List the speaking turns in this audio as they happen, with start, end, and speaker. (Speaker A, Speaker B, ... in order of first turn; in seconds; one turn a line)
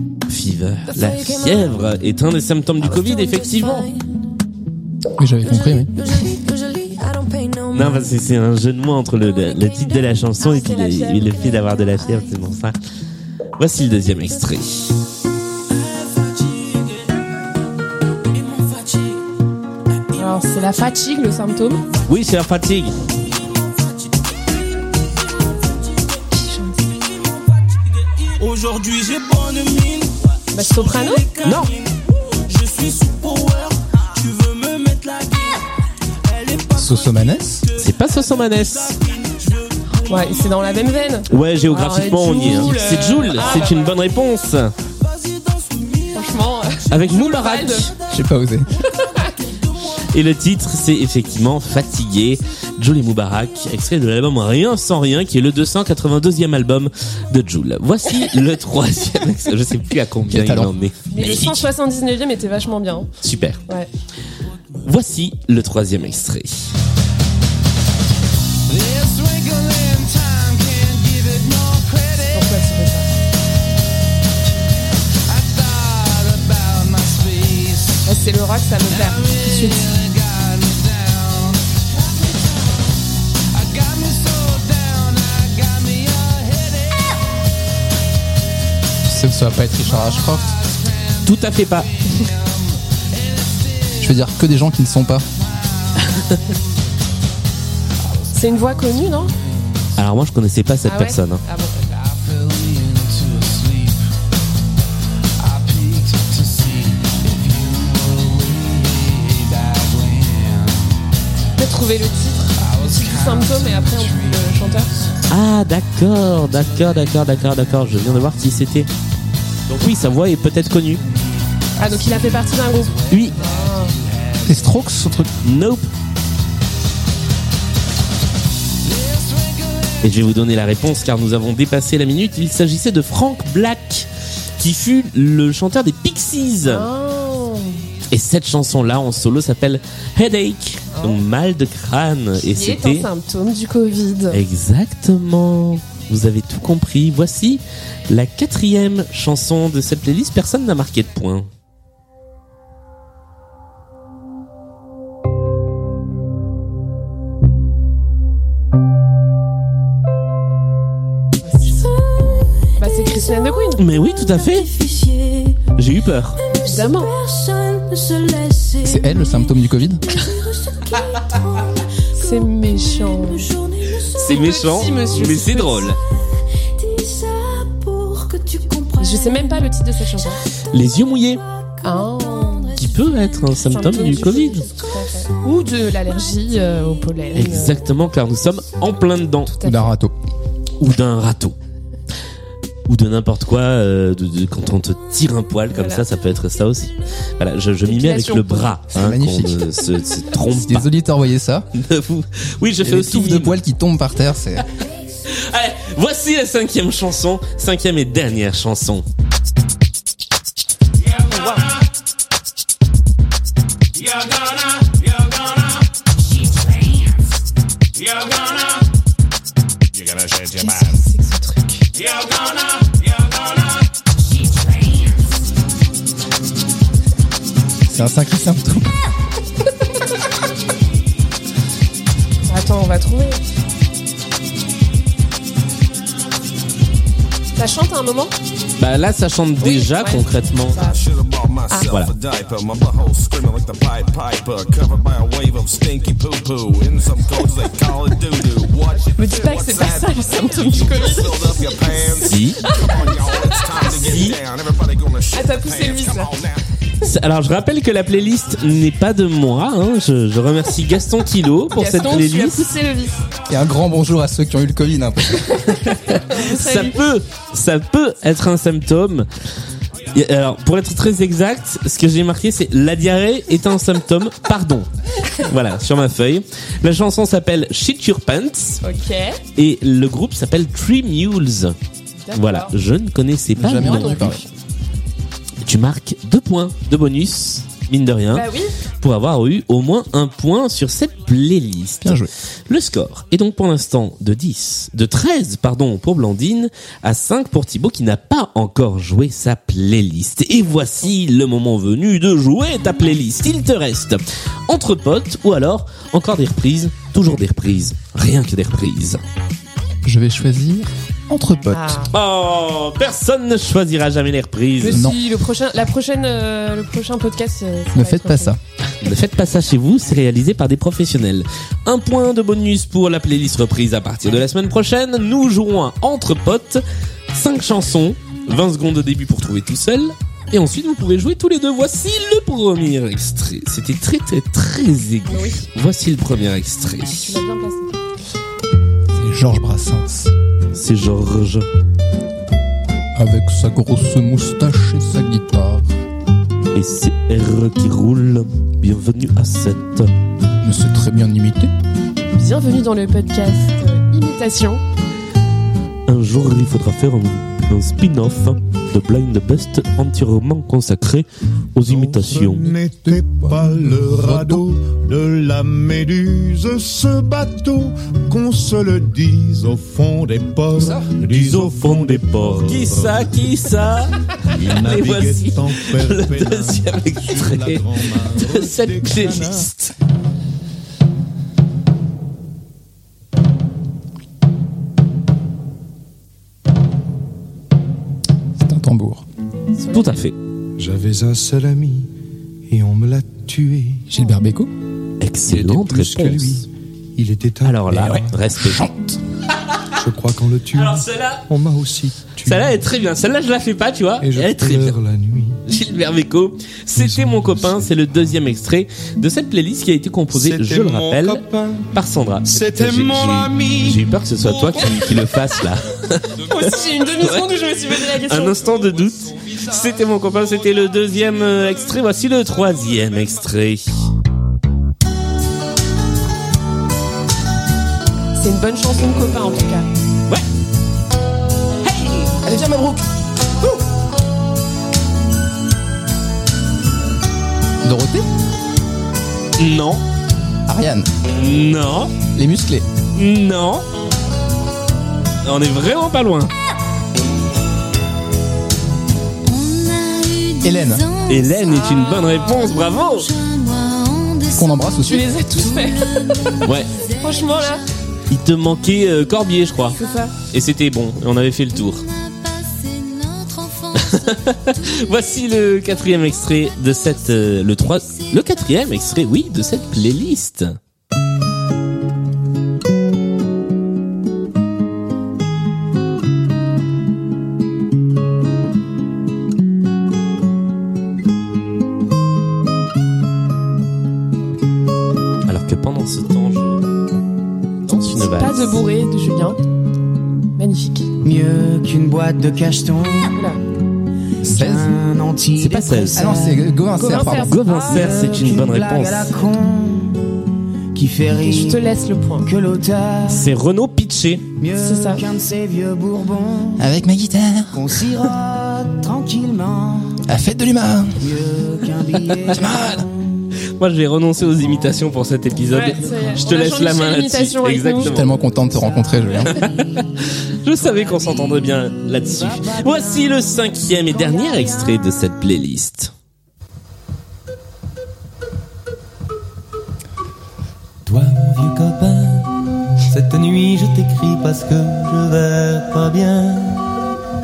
Speaker A: 0.3-3.9
Speaker B: 0.9-1.9
Speaker B: 2.8-4.0
Speaker C: 5.2-5.9
Speaker B: 5.4-8.2
Speaker A: 7.7-12.8
Speaker B: 9.3-10.2
Speaker D: 10.4-12.3
Speaker A: 13.6-14.9
Speaker D: 20.1-21.8
Speaker A: 22.1-22.9
Speaker D: 26.3-27.0
Speaker E: 28.4-29.8
Speaker D: 30.5-31.3
Speaker A: 31.4-31.7
Speaker E: 32.7-33.4
Speaker C: 36.8-37.7
Speaker A: 37.7-39.0
Speaker D: 40.0-44.0
Speaker A: 41.3-44.7
Speaker D: 46.1-47.9
Speaker A: 46.9-47.9
Speaker C: 48.1-48.7
Speaker D: 49.0-49.3
Speaker A: 50.0-61.7
Speaker C: 60.3-60.7
Speaker D: 61.1-63.1
Speaker A: 63.2-63.6
Speaker A: 64.8-66.7
Speaker E: 68.7-72.4
Speaker D: 72.3-73.1
Speaker E: 75.3-78.0
Speaker D: 78.0-79.9
Speaker E: 78.8-81.7
Speaker E: 83.5-87.1
Speaker C: 89.0-90.5
Speaker E: 90.3-94.1
Speaker A: 91.2-91.9
Speaker C: 94.0-95.2
Speaker E: 95.9-96.5
Speaker E: 98.0-100.0
Speaker D: 98.3-99.3
Speaker A: 100.0-101.4
Speaker D: 100.8-101.9
Speaker E: 101.9-104.0
Speaker E: 105.4-110.8
Speaker D: 111.6-114.9
Speaker E: 112.6-115.2
Speaker A: 115.3-118.9
Speaker A: 119.7-121.0
Speaker E: 121.1-124.7
Speaker D: 121.8-124.0
Speaker A: 123.1-123.4
Speaker C: 124.4-125.3
Speaker A: 125.4-125.9
Speaker E: 128.9-130.0
Speaker A: 130.0-134.1
Speaker A: 134.6-136.8
Speaker D: 136.7-137.8
Speaker A: 138.1-143.1
Speaker D: 140.9-141.2
Speaker D: 142.4-144.4
Speaker A: 144.3-151.5
Speaker D: 161.4-161.9
Speaker B: 161.8-162.3
Speaker D: 162.8-163.8
Speaker B: 162.8-163.1
Speaker A: 163.8-164.7
Speaker B: 164.1-165.7
Speaker A: 165.7-166.4
Speaker B: 166.4-169.6
Speaker D: 166.6-167.1
Speaker C: 168.8-170.0
Speaker B: 170.1-175.3
Speaker D: 172.2-173.5
Speaker A: 174.1-176.0
Speaker D: 174.3-175.9
Speaker B: 176.8-179.7
Speaker D: 179.0-180.4
Speaker A: 180.7-181.4
Speaker B: 181.7-183.6
Speaker D: 181.8-182.7
Speaker A: 182.7-184.7
Speaker D: 183.7-187.8
Speaker A: 187.3-189.5
Speaker D: 189.5-189.9
Speaker C: 189.6-190.1
Speaker A: 190.8-191.6
Speaker A: 192.9-200.9
Speaker D: 195.7-196.0
Speaker D: 197.8-198.8
Speaker C: 198.9-199.7
Speaker C: 200.5-201.7
Speaker A: 201.7-203.6
Speaker C: 202.8-204.6
Speaker A: 205.3-209.0
Speaker F: 219.9-220.9
Speaker D: 220.5-221.9
Speaker C: 227.9-229.1
Speaker D: 232.5-233.4
Speaker D: 237.6-238.3
Speaker A: 238.8-240.8
Speaker D: 239.6-241.1
Speaker F: 240.8-256.6
Speaker D: 249.2-254.2
Speaker A: 252.2-252.6
Speaker A: 254.0-254.4
Speaker D: 255.3-256.3
Speaker A: 257.0-262.7
Speaker D: 261.7-263.2
Speaker C: 263.5-265.6
Speaker D: 265.6-267.0
Speaker A: 265.8-269.3
Speaker A: 270.1-278.8
Speaker D: 278.8-279.4
Speaker A: 279.6-281.8
Speaker D: 282.2-282.7
Speaker A: 282.3-284.3
Speaker C: 283.6-284.4
Speaker D: 283.7-284.4
Speaker A: 285.6-288.4
Speaker D: 288.3-288.7
Speaker A: 289.0-309.2
Speaker C: 292.0-292.3
Speaker C: 310.0-312.0
Speaker D: 311.7-312.1
Speaker A: 312.1-315.0
Speaker D: 314.8-318.6
Speaker C: 314.9-315.2
Speaker C: 317.9-318.6
Speaker A: 319.0-337.4
Speaker D: 335.3-335.6
Speaker D: 337.2-337.9
Speaker C: 339.1-340.3
Speaker A: 340.7-341.7
Speaker C: 343.1-345.9
Speaker A: 346.7-350.1
Speaker C: 350.6-351.7
Speaker D: 352.4-354.8
Speaker A: 356.1-362.8
Speaker G: 361.9-373.3
Speaker C: 363.0-364.6
Speaker C: 370.7-371.1
Speaker A: 371.2-379.9
Speaker G: 374.5-379.7
Speaker C: 388.6-389.2
Speaker D: 389.8-390.2
Speaker A: 389.9-390.4
Speaker G: 390.8-392.1
Speaker G: 392.7-394.1
Speaker C: 394.1-394.7
Speaker A: 395.2-396.6
Speaker G: 395.4-398.4
Speaker A: 397.6-398.8
Speaker C: 398.5-399.2
Speaker G: 399.9-402.8
Speaker A: 400.7-401.4
Speaker A: 402.4-405.0
Speaker G: 404.2-405.6
Speaker A: 405.6-416.6
Speaker G: 406.9-407.9
Speaker G: 410.3-411.9
Speaker G: 412.5-413.9
Speaker D: 416.5-418.6
Speaker A: 417.2-424.0
Speaker D: 428.4-429.9
Speaker A: 431.8-432.4
Speaker C: 432.4-433.0
Speaker C: 437.8-438.2
Speaker A: 439.6-440.0
Speaker C: 440.7-441.1
Speaker A: 441.3-442.1
Speaker C: 442.3-442.9
Speaker A: 443.1-443.9
Speaker A: 445.4-446.5
Speaker B: 449.4-457.9
Speaker C: 450.6-451.0
Speaker A: 451.3-453.3
Speaker D: 451.6-452.3
Speaker C: 454.5-455.4
Speaker D: 455.0-456.6
Speaker A: 456.6-457.0
Speaker D: 457.1-457.8
Speaker A: 458.3-462.0
Speaker B: 459.3-460.3
Speaker D: 459.9-460.3
Speaker B: 461.7-469.2
Speaker A: 464.0-470.8
Speaker A: 485.5-486.9
Speaker A: 487.9-488.8
Speaker D: 487.9-489.6
Speaker D: 490.6-491.1
Speaker H: 491.2-493.5
Speaker D: 493.3-493.6
Speaker C: 494.4-494.9
Speaker H: 494.4-496.8
Speaker A: 495.5-496.3
Speaker C: 496.1-497.6
Speaker D: 497.0-498.2
Speaker A: 497.1-499.4
Speaker H: 497.8-500.4
Speaker H: 500.9-503.5
Speaker D: 501.4-502.5
Speaker A: 503.3-504.4
Speaker H: 504.6-506.9
Speaker D: 504.8-505.2
Speaker C: 506.8-508.0
Speaker H: 507.7-510.2
Speaker C: 510.2-511.3
Speaker H: 511.2-513.6
Speaker C: 512.5-513.1
Speaker A: 513.7-518.3
Speaker D: 515.7-518.1
Speaker H: 515.7-516.4
Speaker C: 518.0-519.6
Speaker H: 518.4-520.0
Speaker A: 520.6-526.1
Speaker H: 520.8-521.5
Speaker H: 522.2-523.5
Speaker H: 524.1-525.0
Speaker B: 524.8-525.1
Speaker I: 531.0-536.9